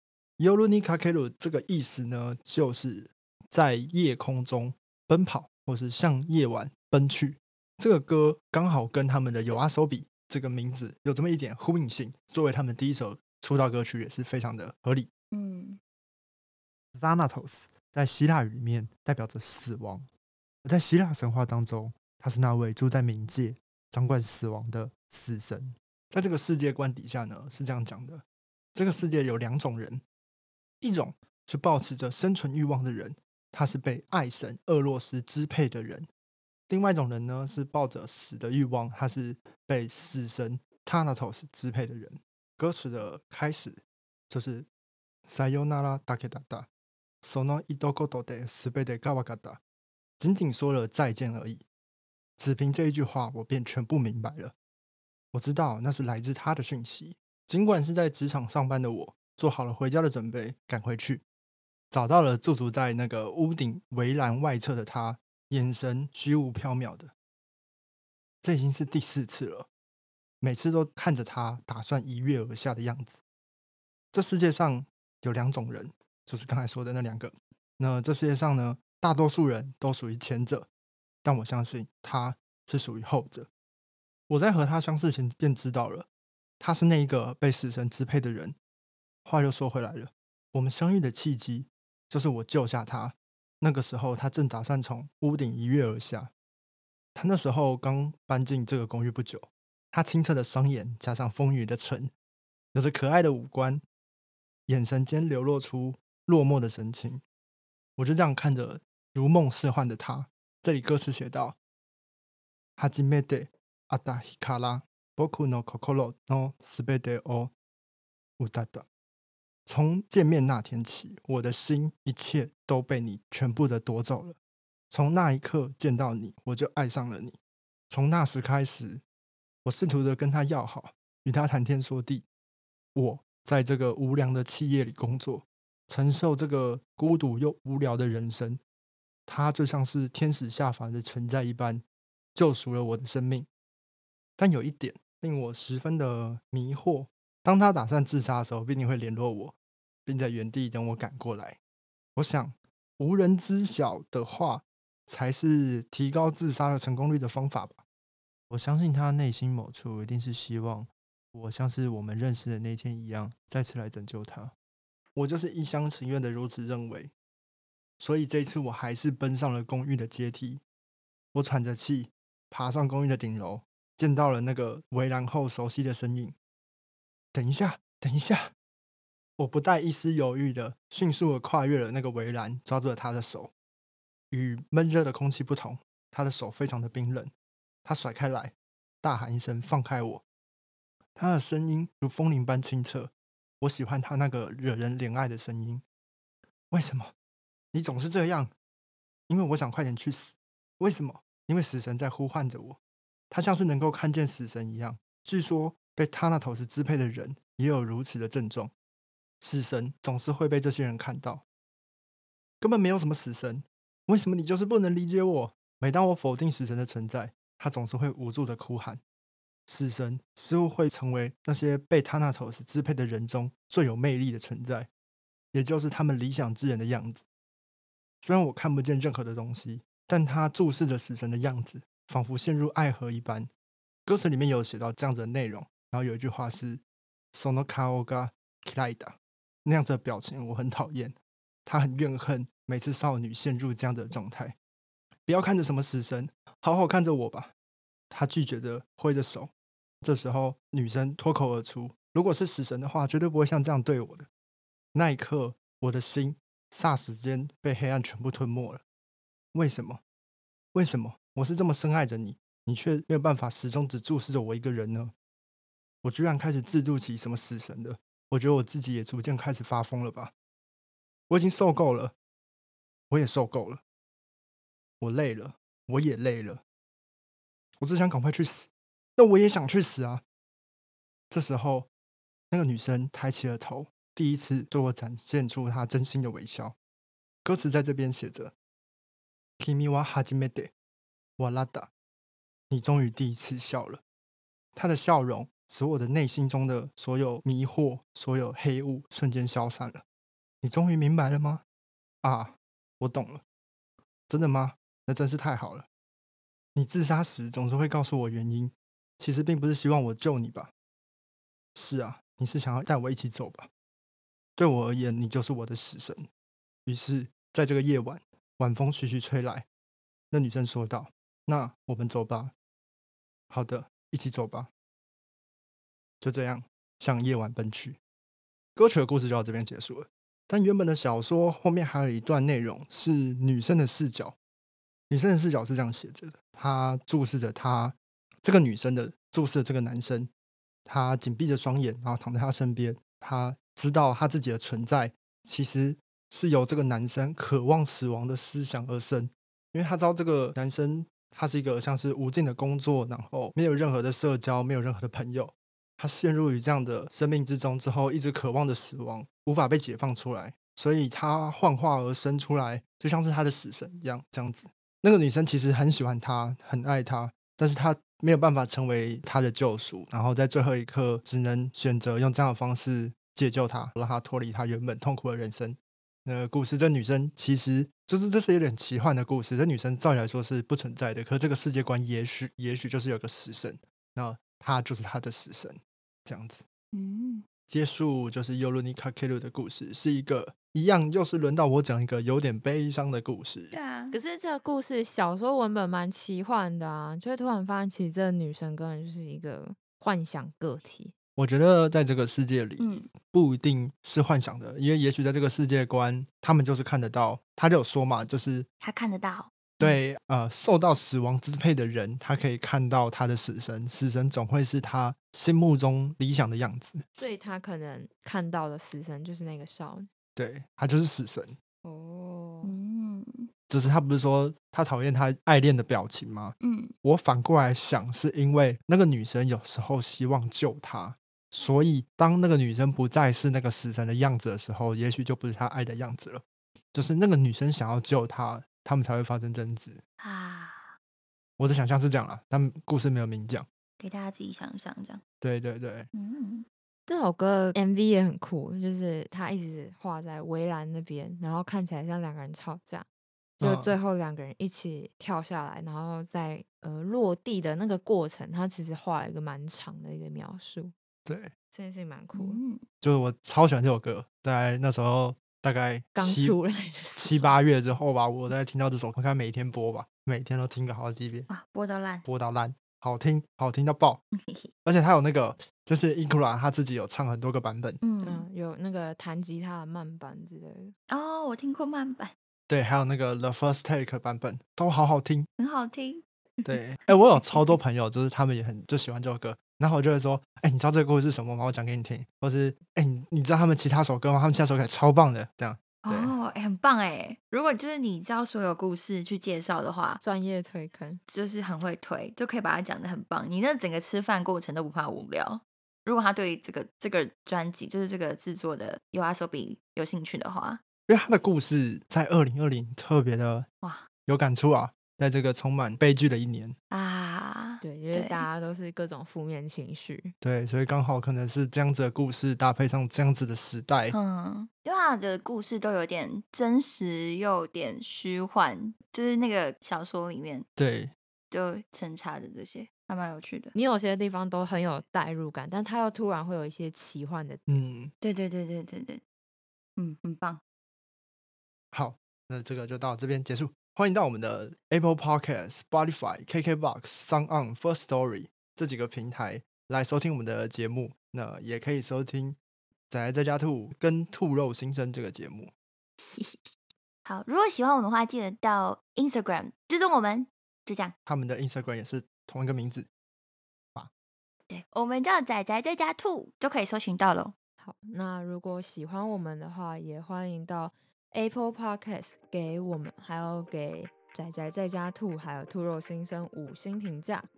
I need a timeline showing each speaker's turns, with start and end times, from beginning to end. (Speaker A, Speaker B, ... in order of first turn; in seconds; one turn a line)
Speaker A: 0.4-15.1
Speaker B: 15.3-15.8
Speaker A: 16.9-20.1
Speaker A: 20.6-28.2
Speaker A: 28.8-30.0
Speaker A: 30.8-36.1
Speaker A: 36.7-44.7
Speaker A: 45.3-46.7
Speaker A: 47.2-49.6
Speaker A: 50.2-51.6
Speaker A: 52.4-54.5
Speaker A: 55.3-61.2
Speaker A: 61.9-67.1
Speaker A: 68.4-69.7
Speaker A: 70.4-73.2
Speaker A: 74.1-80.7
Speaker A: 81.2-83.5
Speaker A: 84.3-86.1
Speaker A: 86.6-88.5
Speaker A: 89.2-96.3
Speaker A: 97.1-102.1
Speaker A: 102.7-103.8
Speaker A: 104.7-107.2
Speaker A: 108.0-111.6
Speaker A: 112.8-117.5
Speaker A: 118.4-118.9
Speaker A: 119.7-124.4
Speaker A: 124.9-127.4
Speaker A: 127.9-129.0
Speaker A: 129.6-132.3
Speaker A: 132.9-138.6
Speaker A: 139.3-143.5
Speaker A: 144.4-151.6
Speaker A: 152.2-157.8
Speaker A: 158.5-164.5
Speaker A: 165.1-167.1
Speaker A: 168.0-170.6
Speaker A: 171.3-176.4
Speaker A: 177.3-178.5
Speaker A: 179.4-183.5
Speaker A: 184.3-187.3
Speaker A: 187.8-190.2
Speaker A: 191.2-195.8
Speaker A: 196.7-197.1
Speaker A: 197.7-198.5
Speaker A: 199.3-202.8
Speaker A: 203.3-208.7
Speaker A: 209.4-211.4
Speaker A: 212.6-219.0
Speaker A: 219.7-224.9
Speaker A: 225.5-227.3
Speaker A: 228.2-233.5
Speaker A: 234.1-236.8
Speaker A: 237.3-244.6
Speaker A: 245.3-247.5
Speaker A: 248.1-249.5
Speaker A: 250.0-254.3
Speaker A: 254.9-258.8
Speaker A: 259.5-260.0
Speaker A: 260.7-265.1
Speaker A: 266.0-270.3
Speaker A: 271.3-272.1
Speaker A: 273.1-273.8
Speaker A: 275.0-276.6
Speaker A: 277.8-280.2
Speaker A: 281.3-281.9
Speaker A: 282.5-286.8
Speaker A: 287.4-288.5
Speaker A: 289.6-290.7
Speaker A: 291.4-291.9
Speaker A: 292.7-294.0
Speaker A: 294.8-300.0
Speaker A: 300.6-301.6
Speaker A: 302.2-303.4
Speaker A: 304.3-305.9
Speaker A: 306.7-310.7
Speaker A: 311.7-313.7
Speaker A: 314.6-316.3
Speaker A: 316.9-319.7
Speaker A: 320.3-322.5
Speaker A: 323.5-324.7
Speaker A: 326.2-328.0
Speaker A: 328.8-334.4
Speaker A: 335.1-340.3
Speaker A: 340.9-386.6
Speaker B: 386.9-387.4
Speaker A: 387.7-393.8
Speaker B: 393.7-394.2
Speaker C: 394.1-401.1
Speaker A: 401.4-408.7
Speaker B: 402.8-403.1
Speaker B: 408.8-409.5
Speaker A: 409.8-417.0
Speaker C: 417.2-420.1
Speaker A: 420.4-421.6
Speaker C: 421.8-422.7
Speaker B: 422.6-423.5
Speaker A: 423.7-436.4
Speaker B: 426.6-426.9
Speaker A: 436.9-440.0
Speaker B: 440.2-440.9
Speaker A: 441.6-443.7
Speaker B: 444.0-445.2
Speaker A: 445.4-446.1
Speaker B: 446.1-446.6
Speaker C: 447.1-453.1
Speaker C: 453.6-460.9
Speaker A: 453.6-454.0
Speaker A: 461.2-461.5
Speaker C: 461.7-462.6
Speaker B: 462.3-462.8
Speaker A: 463.0-466.6
Speaker C: 466.1-467.6
Speaker A: 467.1-471.5
Speaker B: 471.5-472.2
Speaker A: 472.2-474.2
Speaker B: 474.4-474.7
Speaker A: 474.8-478.0
Speaker B: 478.0-478.5
Speaker C: 478.2-480.9
Speaker B: 481.1-482.3
Speaker A: 482.7-485.5
Speaker B: 485.6-487.7
Speaker A: 486.6-496.4
Speaker B: 496.0-500.2
Speaker C: 500.2-501.2
Speaker B: 501.3-510.8
Speaker A: 511.1-513.7
Speaker B: 513.8-514.1
Speaker A: 514.2-516.8
Speaker B: 516.9-518.5
Speaker C: 517.8-520.3
Speaker A: 520.4-524.1
Speaker B: 524.1-530.6
Speaker A: 530.8-531.1
Speaker B: 531.5-533.7
Speaker C: 533.7-537.8
Speaker A: 537.7-538.1
Speaker B: 538.2-539.2
Speaker B: 540.0-540.6
Speaker A: 541.9-552.6
Speaker A: 553.1-555.7
Speaker B: 557.2-561.1
Speaker A: 561.2-563.1
Speaker B: 564.7-567.5
Speaker C: 567.8-577.5